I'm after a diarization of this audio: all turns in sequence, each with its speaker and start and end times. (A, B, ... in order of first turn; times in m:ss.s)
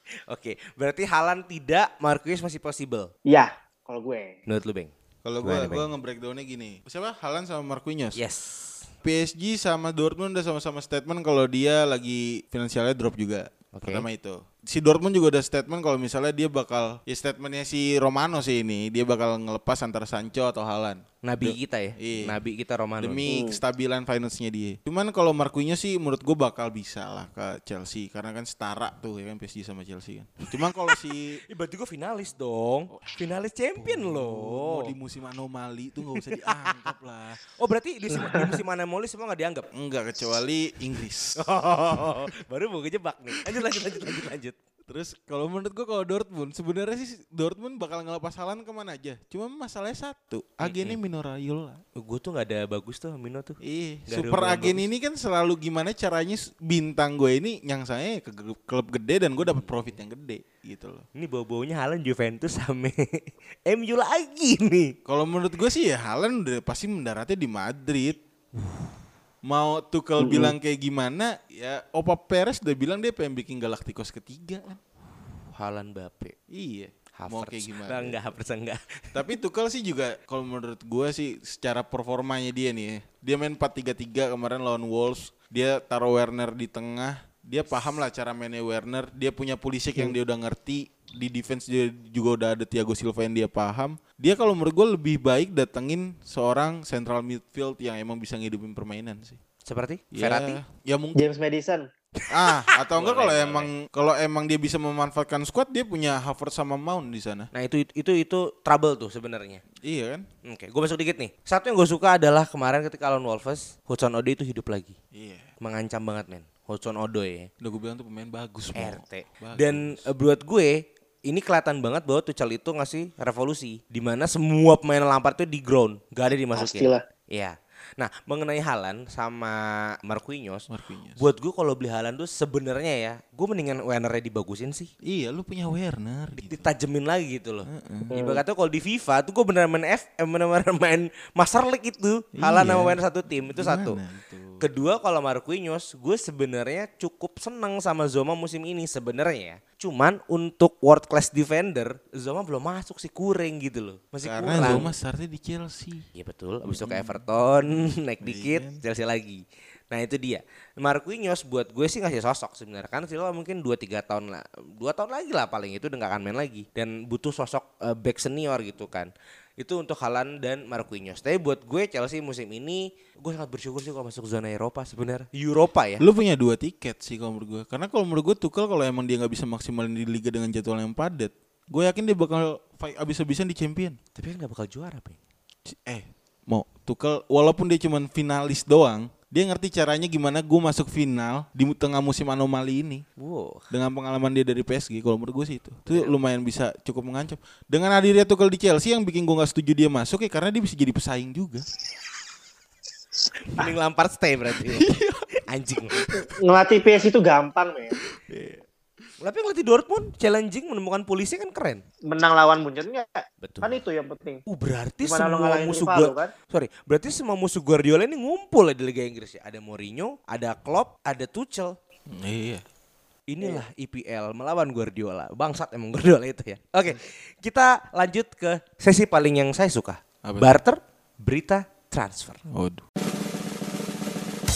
0:00.3-0:03.1 A
0:03.3-0:04.4 B
0:04.5-0:05.9 A
0:05.2-0:08.2 C
0:08.2-0:08.9 A
0:09.0-0:22.4 C
0:13.7-0:14.1 A
0:21.2-0:23.2 A
0:23.0-0:31.4 C
0:23.3-0:23.6 B
0:31.5-0:34.9 A
0:32.9-0:33.2 C
0:33.8-0:37.4 C
0:36.2-0:36.9 A
0:37.6-0:39.7 A
0:38.1-0:38.6 B
0:39.7-0:41.4 C
0:41.4-0:44.6 A
0:44.9-0:51.8 C
0:50.6-0:51.0 A
0:52.0-0:54.8 A
0:53.6-1:01.1 C
0:59.4-0:59.9 A
1:01.2-1:05.0 A
1:05.0-1:08.2 C
1:09.5-1:14.8 C
1:10.2-1:10.6 B
1:15.5-1:16.4 A
1:16.5-1:18.2 C
1:17.2-1:19.2 A
1:19.1-1:39.4 C
1:39.6-1:40.6 A
1:40.1-1:41.2 C
1:41.2-1:41.9 B
1:42.2-1:43.7 A
1:42.3-1:47.5 C
1:47.5-1:49.6 A
1:49.8-1:50.3 C
1:50.4-1:55.0 A
1:55.1-1:55.5 C
1:55.6-1:57.5 A
1:57.6-2:00.1 C
1:58.8-2:14.9 A
2:06.6-2:07.0 B
2:10.7-2:11.2 C
2:15.0-2:16.7 C
2:16.4-2:24.0 A
2:17.7-2:18.1 C
2:18.1-2:18.4 B
2:22.4-2:24.7 C
2:24.6-2:34.9 A
2:34.2-2:36.1 C
2:36.2-2:56.0 A
2:36.6-2:37.7 C
2:38.2-2:38.8 C
2:56.0-3:04.0 C
3:04.2-3:05.2 A
3:05.7-3:13.0 C
3:13.2-3:13.7 A
3:13.7-3:21.6 C
3:23.5-3:24.9 A
3:24.6-3:26.3 C
3:25.5-3:26.0 A
3:26.2-3:28.0 B
3:28.1-3:28.6 C
3:29.2-3:31.8 A
3:32.1-3:34.4 B
3:33.4-3:33.8 A
3:34.5-3:41.8 A
3:35.0-3:36.3 B
3:42.1-3:42.6 C
3:43.3-3:52.4 A
3:50.2-3:50.6 C
3:52.5-3:52.8 C